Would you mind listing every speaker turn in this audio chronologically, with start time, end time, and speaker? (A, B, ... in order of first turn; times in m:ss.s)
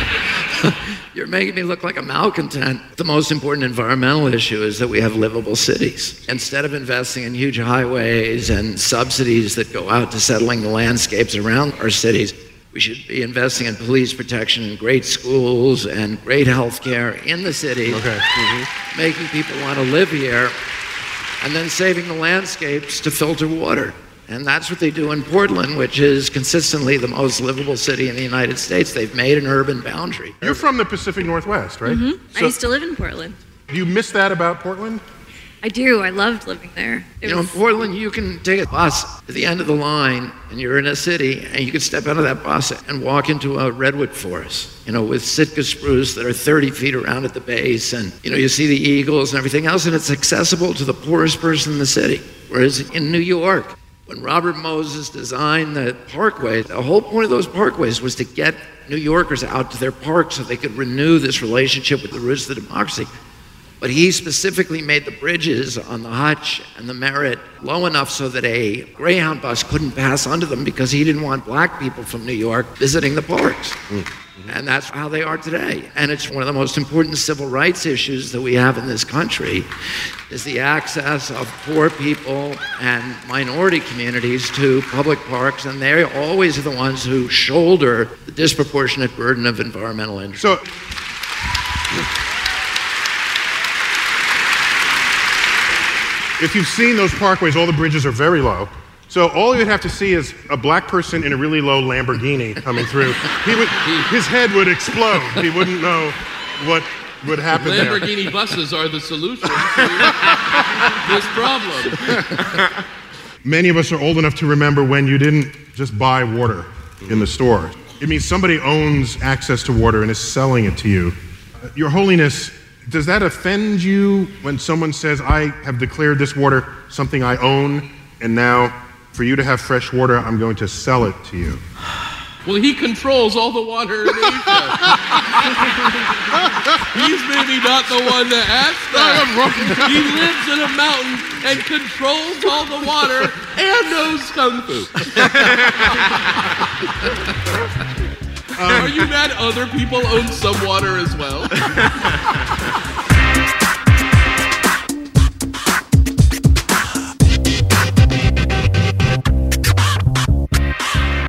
0:00.6-0:18.1 A
0:17.9-0:18.6 B
0:18.9-0:20.6 A
0:21.4-0:30.6 A
0:30.4-0:32.6 B
0:31.8-0:33.4 C
0:33.7-0:35.0 B
0:35.6-0:37.6 C
0:37.2-1:03.1 A
1:03.8-1:13.8 A
1:13.9-1:14.5 B
1:14.5-1:19.7 A
1:20.3-1:30.5 A
1:30.4-1:30.6 B
1:36.4-1:48.1 B
1:43.8-1:44.1 D
1:47.6-1:52.0 D
1:49.6-1:50.8 B
1:52.0-1:52.5 B
1:53.4-2:01.2 B
2:01.7-2:11.6 B
2:12.4-2:15.5 D
2:14.5-2:15.4 B
2:16.3-2:17.1 B
2:16.9-2:26.0 D
2:18.9-2:20.2 B
2:28.6-2:28.9 B
2:28.7-2:31.6 D